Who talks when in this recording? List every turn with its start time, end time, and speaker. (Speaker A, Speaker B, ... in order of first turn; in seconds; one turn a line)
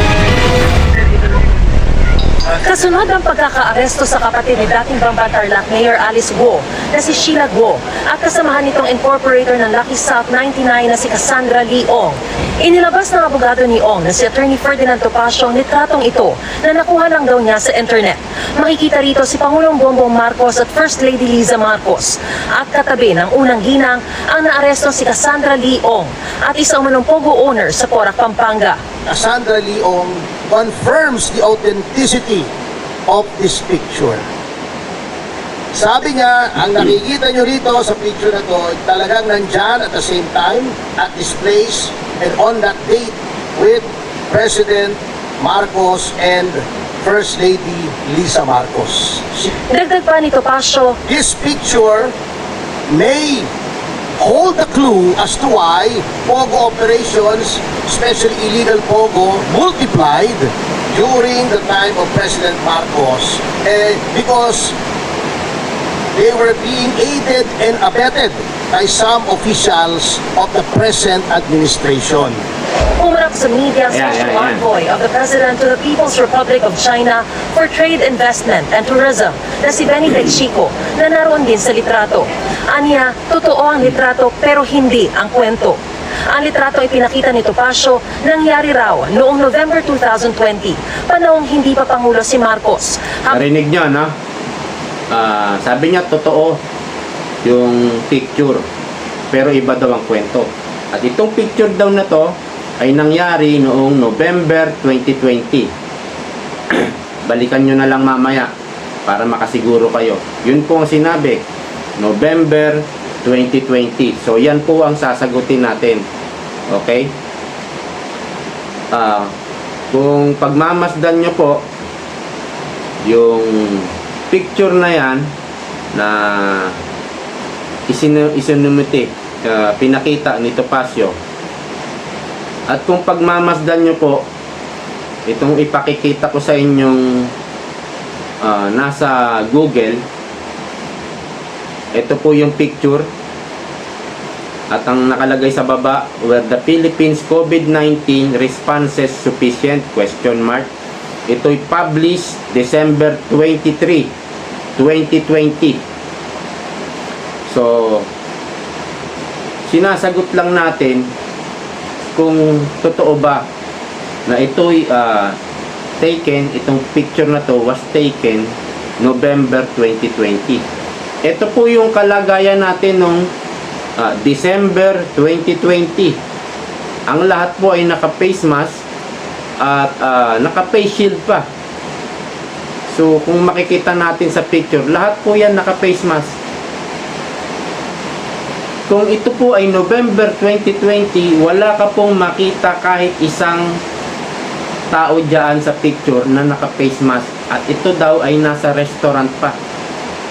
Speaker A: 2.5-28.8
Speaker B: 29.1-32.5
Speaker B: 33.1-34.2
Speaker B: 35.7-49.5
Speaker A: 49.7-51.0
Speaker B: 51.1-52.1
Speaker B: 52.9-53.5
Speaker B: 54.2-64.7
Speaker B: 66.2-72.4
Speaker A: 73.0-85.8
Speaker C: 73.9-74.6
Speaker A: 86.3-93.4
Speaker C: 93.3-94.1
Speaker C: 95.1-96.6
Speaker C: 97.4-98.6
Speaker C: 99.3-105.7
Speaker C: 106.7-108.5
Speaker C: 109.1-111.4
Speaker C: 112.0-116.0
Speaker C: 116.7-117.1
Speaker C: 118.9-119.3
Speaker C: 119.9-121.7
Speaker C: 123.0-125.3
Speaker C: 125.9-126.8
Speaker C: 127.9-131.2
Speaker C: 132.7-134.2
Speaker C: 135.3-137.3
Speaker C: 138.4-140.0
Speaker C: 141.9-143.1
Speaker C: 144.7-150.7
Speaker C: 151.3-154.1
Speaker C: 154.8-155.8
Speaker C: 157.5-158.1
Speaker C: 159.7-161.1
Speaker C: 162.2-163.5
Speaker C: 164.3-165.4
Speaker C: 166.0-170.6
Speaker C: 171.2-173.3
Speaker C: 174.0-176.2
Speaker C: 177.1-178.8
Speaker C: 179.6-181.5
Speaker C: 182.9-186.4
Speaker C: 188.9-193.8
Speaker C: 194.9-199.6